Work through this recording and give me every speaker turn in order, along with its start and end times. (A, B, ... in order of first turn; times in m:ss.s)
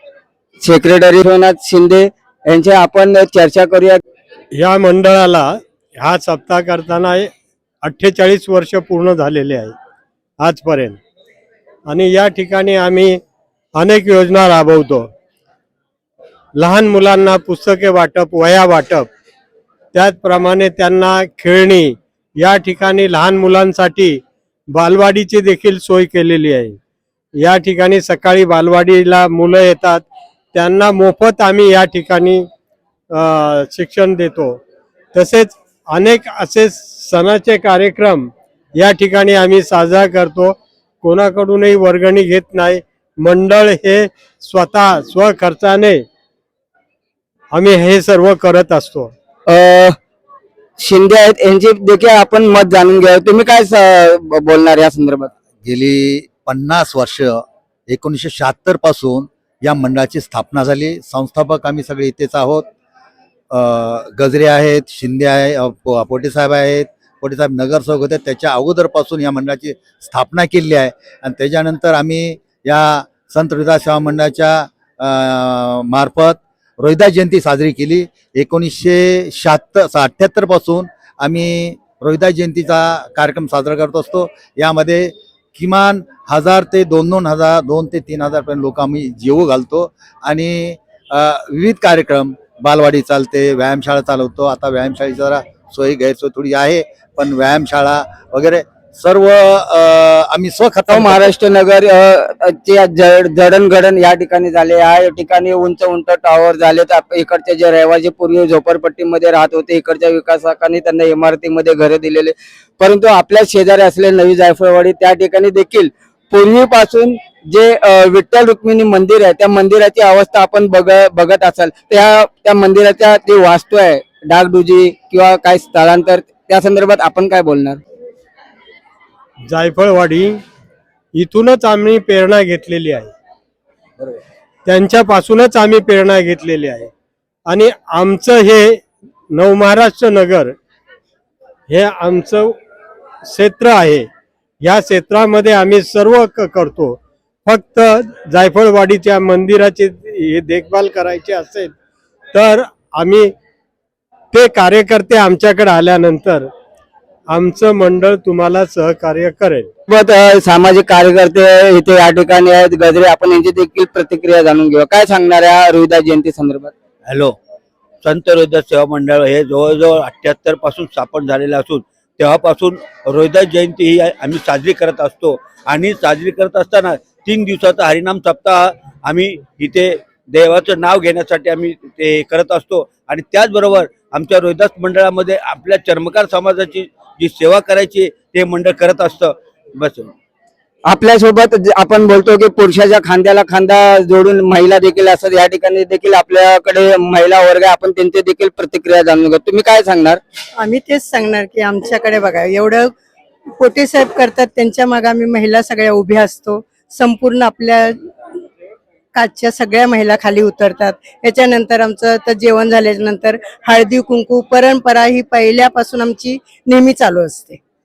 0:00.6-0:04.0 A
0:04.5-0:07.3 B
0:07.8-0:09.8 B
0:10.4-0:11.0 B
0:11.9-0:13.2 B
0:13.8-0:15.1 B
0:16.6-0:19.1 B
0:19.9-0:26.8 B
0:27.4-0:32.5 B
0:33.1-0:34.6 B
0:35.1-0:46.0 B
0:47.5-0:49.1 B
0:49.5-0:50.0 A
0:50.8-0:55.3 A
0:55.6-1:02.7 C
1:03.5-1:41.3 C
1:40.9-2:07.8 A
2:09.5-2:10.4 B
2:11.2-2:13.1 B
2:14.7-2:16.9 B
2:17.5-2:20.6 B
2:21.7-2:22.6 B
2:23.3-2:24.1 B
2:24.6-2:31.7 B
2:32.3-2:33.3 B
2:34.3-2:36.5 B
2:37.3-2:39.7 B
2:39.9-2:46.7 A
2:47.1-2:47.4 D
2:48.0-3:10.1 D
3:10.9-3:20.2 A
3:20.6-3:22.9 E
3:23.6-3:28.0 E
3:29.1-3:37.6 E